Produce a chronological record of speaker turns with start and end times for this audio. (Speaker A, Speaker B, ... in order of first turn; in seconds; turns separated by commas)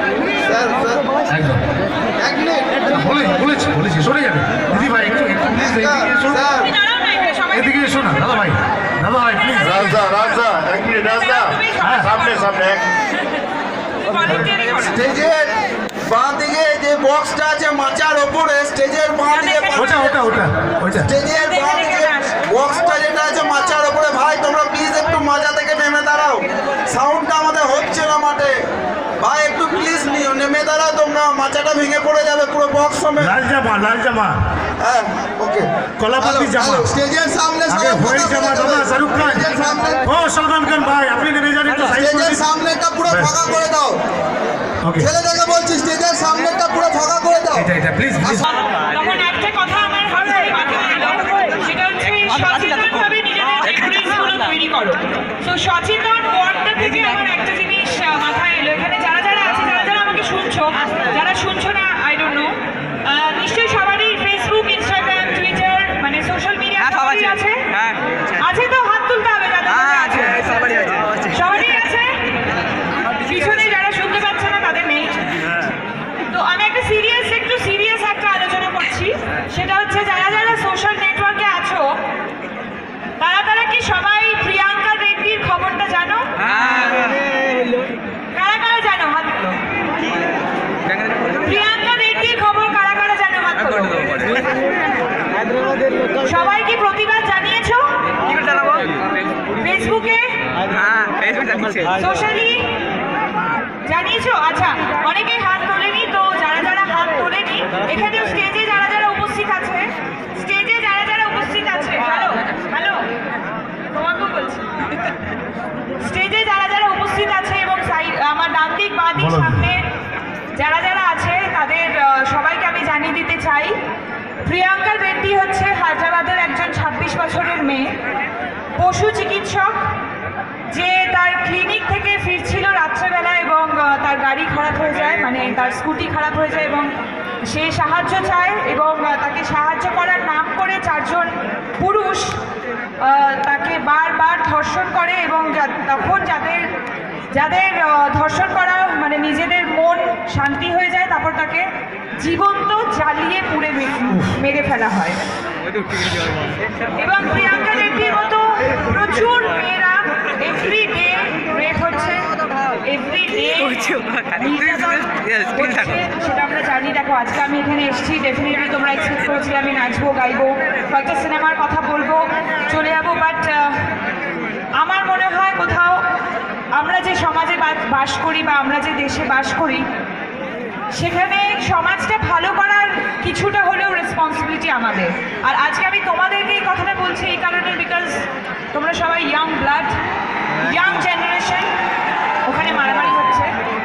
Speaker A: 0.4-1.0, Speaker B: 1.3-1.6, Speaker A: 2.2-2.8, Speaker B: 2.9-6.4, Speaker A: 5.5-6.7, Speaker C: 6.4-7.9, Speaker B: 7.5-10.1, Speaker A: 9.6-12.8, Speaker C: 11.1-12.5, Speaker B: 11.8-12.1, Speaker C: 14.1-15.0, Speaker A: 14.8-15.5, Speaker A: 16.1-20.2, Speaker C: 19.3-20.3, Speaker B: 19.8-21.1, Speaker A: 21.0-28.6, Speaker C: 21.2-22.3, Speaker A: 29.2-33.3, Speaker B: 33.2-34.4, Speaker A: 34.8-40.1, Speaker B: 36.0-36.9, Speaker B: 37.7-39.5, Speaker B: 40.0-42.4, Speaker A: 41.9-44.0, Speaker B: 43.1-43.3, Speaker B: 44.8-45.1, Speaker A: 45.0-47.7, Speaker B: 47.5-48.5, Speaker C: 48.8-67.7, Speaker C: 68.3-70.5, Speaker D: 70.0-71.2, Speaker C: 71.2-72.2, Speaker C: 73.2-75.2, Speaker C: 76.3-82.0, Speaker C: 83.2-86.9, Speaker D: 86.5-87.0, Speaker C: 88.3-89.7, Speaker C: 91.3-94.5, Speaker C: 96.2-98.0, Speaker D: 98.5-98.8, Speaker C: 99.6-100.5, Speaker D: 100.7-101.9, Speaker C: 101.9-102.8, Speaker C: 103.8-113.1, Speaker C: 113.9-114.8, Speaker C: 116.0-119.9, Speaker B: 119.2-119.7, Speaker C: 120.5-123.8, Speaker C: 124.4-128.0, Speaker C: 128.8-130.0, Speaker C: 130.7-136.9, Speaker C: 137.4-142.4, Speaker C: 143.0-146.7, Speaker C: 147.3-155.2, Speaker B: 154.1-154.4, Speaker C: 156.9-162.3, Speaker C: 162.8-173.9, Speaker D: 163.8-164.2, Speaker D: 165.1-165.6, Speaker C: 174.8-176.0, Speaker C: 176.7-179.9, Speaker C: 180.9-190.0, Speaker C: 190.6-191.8, Speaker C: 192.5-193.5